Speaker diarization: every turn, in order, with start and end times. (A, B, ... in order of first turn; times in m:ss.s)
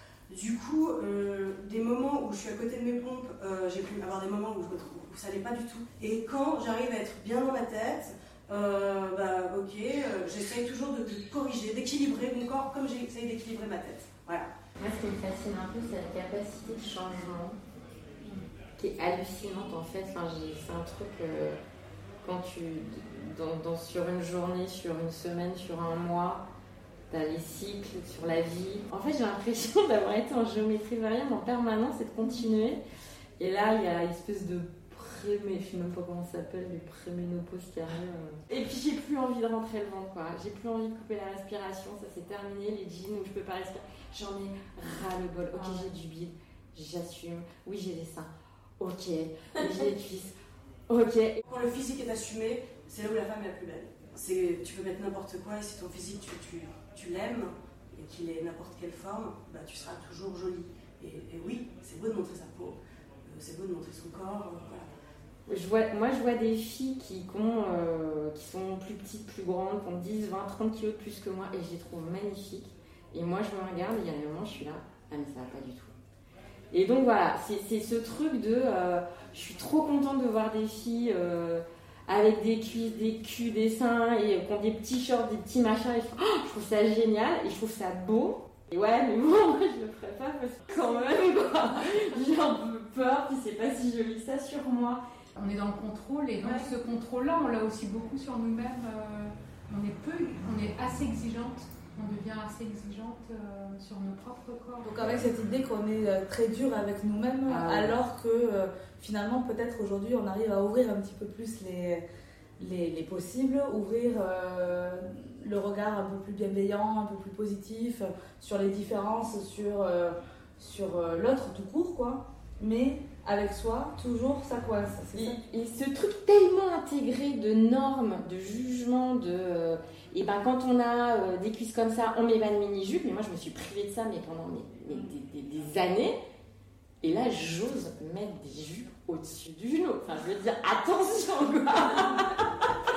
0:00.3-0:14.5 A
0:14.8-0:17.6 B
0:18.8-0:21.6 B
0:22.2-0:26.4 B
0:27.1-0:32.8 B
0:33.4-0:50.3 B
0:50.9-0:51.4 B
0:51.4-1:04.9 A
1:05.5-1:15.9 B
1:16.7-1:35.0 B
1:35.4-1:45.0 C
1:44.8-1:52.0 D
1:47.5-1:48.0 B
1:52.6-2:05.4 D
2:05.2-2:16.2 B
2:17.0-2:22.6 B